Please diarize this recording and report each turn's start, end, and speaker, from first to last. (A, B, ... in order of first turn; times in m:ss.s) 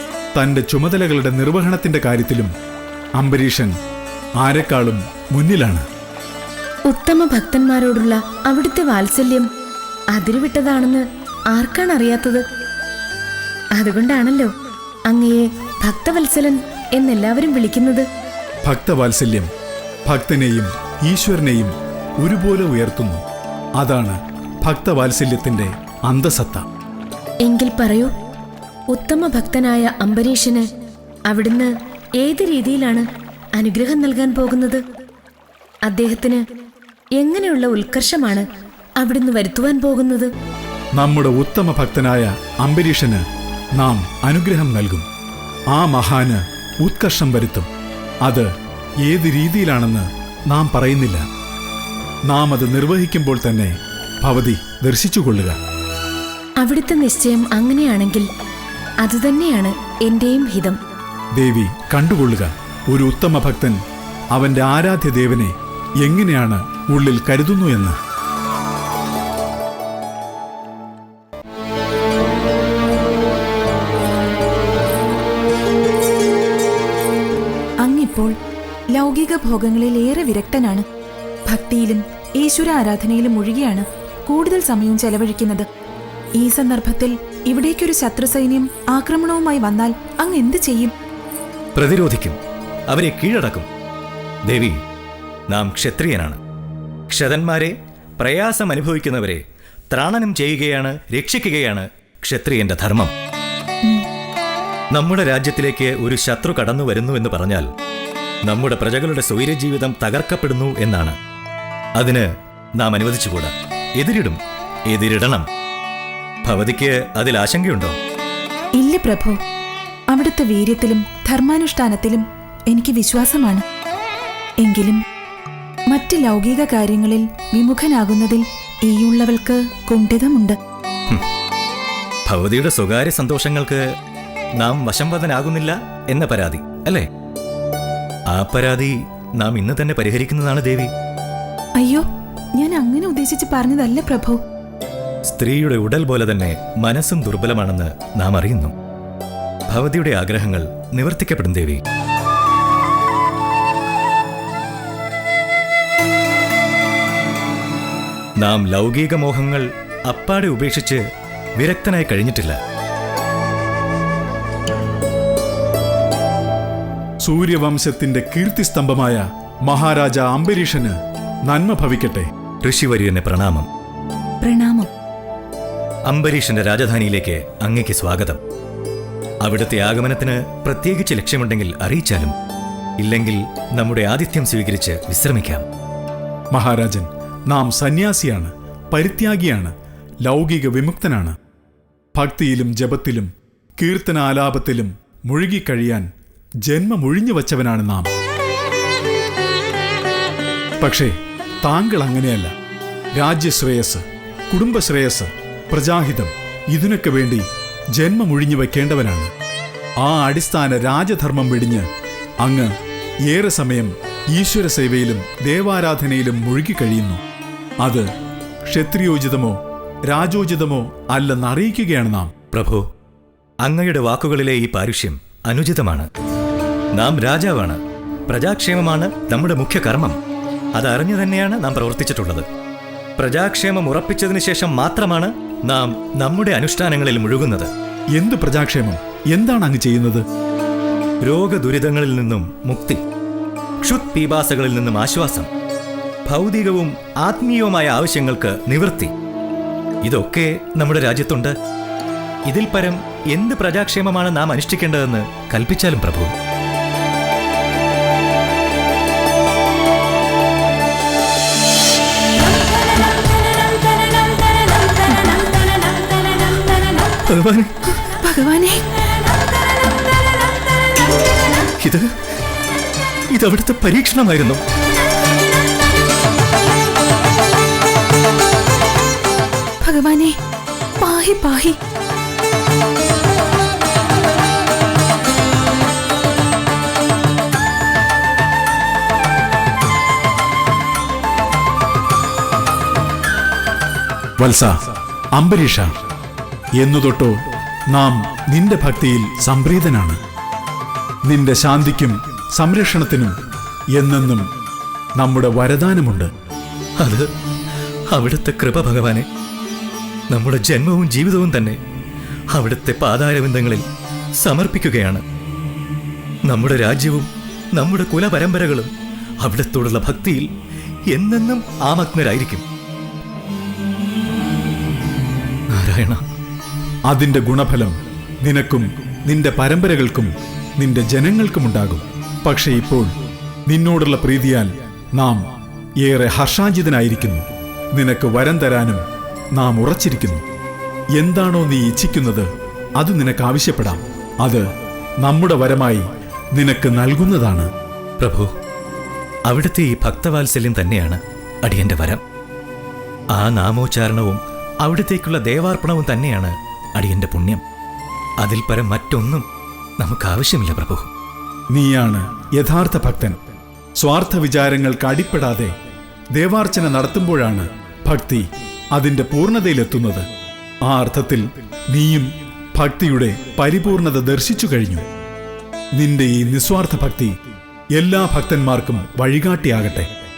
0:00.3-0:02.5 A
0:03.2-0:03.8 A
0:04.4-0:05.8 A
0:06.9-0:09.5 B
0:10.1-0:12.4 B
0:13.8-0:14.5 B
0:15.1-0:18.1 B
0:18.6-0:19.5 A
0:20.1-0:23.2 A
0:23.8-0:26.6 A
0:27.4-0:28.1 B
0:28.9-0:30.7 B
0:31.3-0:33.0 B
0:33.6-0:34.8 B
0:35.9-0:36.4 B
0:37.2-0:38.4 B
0:39.0-0:40.3 B
0:41.0-0:43.2 A
0:43.8-0:45.0 A
0:45.7-0:47.7 A
0:49.0-0:51.2 A
0:52.3-0:55.6 A
0:56.6-0:58.3 B
0:59.0-1:00.8 B
1:01.4-1:03.8 A
1:04.3-1:08.0 A
1:17.8-1:18.3 C
1:18.9-1:20.8 C
1:21.5-1:25.7 C
1:26.4-1:30.9 C
1:31.8-1:32.4 D
1:32.9-1:33.7 D
1:34.5-1:34.8 D
1:35.5-1:36.4 D
1:37.1-1:39.4 D
1:39.9-1:43.1 D
1:44.9-1:47.7 D
1:48.5-1:51.2 D
1:52.0-1:52.3 D
1:52.8-1:54.4 D
1:54.9-1:55.4 D
1:56.4-1:58.0 D
1:58.8-1:59.4 C
2:00.1-2:03.6 C
2:04.6-2:05.0 C
2:05.9-2:10.6 C
2:12.3-2:13.8 D
2:14.6-2:17.0 D
2:18.3-2:20.9 D
2:21.8-2:22.0 C
2:22.6-2:24.4 C
2:25.3-2:28.7 D
2:29.7-2:31.8 D
2:38.4-2:41.0 D
2:41.6-2:42.6 D
2:47.2-2:52.3 A
2:52.6-2:53.7 D
2:54.4-2:54.9 C
2:56.1-2:58.4 D
2:59.4-3:02.3 D
3:03.0-3:05.6 D
3:06.5-3:09.7 A
3:10.2-3:11.4 A
3:12.2-3:16.1 A
3:16.7-3:18.1 A
3:20.8-3:22.5 A
3:23.2-3:29.3 A
3:30.0-3:31.9 A
3:32.4-3:32.7 A
3:33.3-3:37.2 A
3:37.8-3:38.1 A
3:38.7-3:42.3 A
3:42.5-3:42.8 D
3:43.6-3:46.1 D
3:47.0-3:50.2 D
3:50.8-3:52.5 D
3:53.2-3:57.7 D
3:58.2-4:00.2 A
4:01.2-4:03.0 D
4:03.8-4:05.5 D
4:06.3-4:09.1 D
4:10.0-4:11.5 D
4:12.5-4:16.3 D
4:27.2-4:27.7 D
4:28.2-4:28.9 C
4:33.3-4:34.6 D
4:39.8-4:40.4 C
4:41.0-4:41.8 C
4:54.4-4:54.8 A
4:55.4-4:55.9 A
4:56.8-5:00.2 A
5:01.3-5:03.4 A
5:04.0-5:04.5 A
5:05.2-5:06.3 A
5:07.0-5:07.2 D
5:08.1-5:09.2 D
5:10.3-5:11.8 D
5:12.5-5:13.8 D
5:14.4-5:15.2 D
5:16.5-5:18.9 D
5:19.4-5:20.5 D
5:21.1-5:22.6 D
5:25.8-5:26.2 D
5:27.1-5:33.1 A
5:33.7-5:35.4 A
5:36.0-5:39.0 A
5:39.6-5:40.4 A
5:41.1-5:44.6 A
5:45.2-5:46.0 A
5:46.6-5:47.7 A
5:48.2-5:48.5 D
5:49.5-5:52.2 D
5:53.4-5:57.6 D
5:58.4-5:59.4 D
6:00.0-6:01.1 D
6:01.7-6:03.4 A
6:04.0-6:05.7 A
6:06.4-6:10.3 A
6:10.9-6:15.0 A
6:16.0-6:17.4 A
6:18.0-6:20.1 A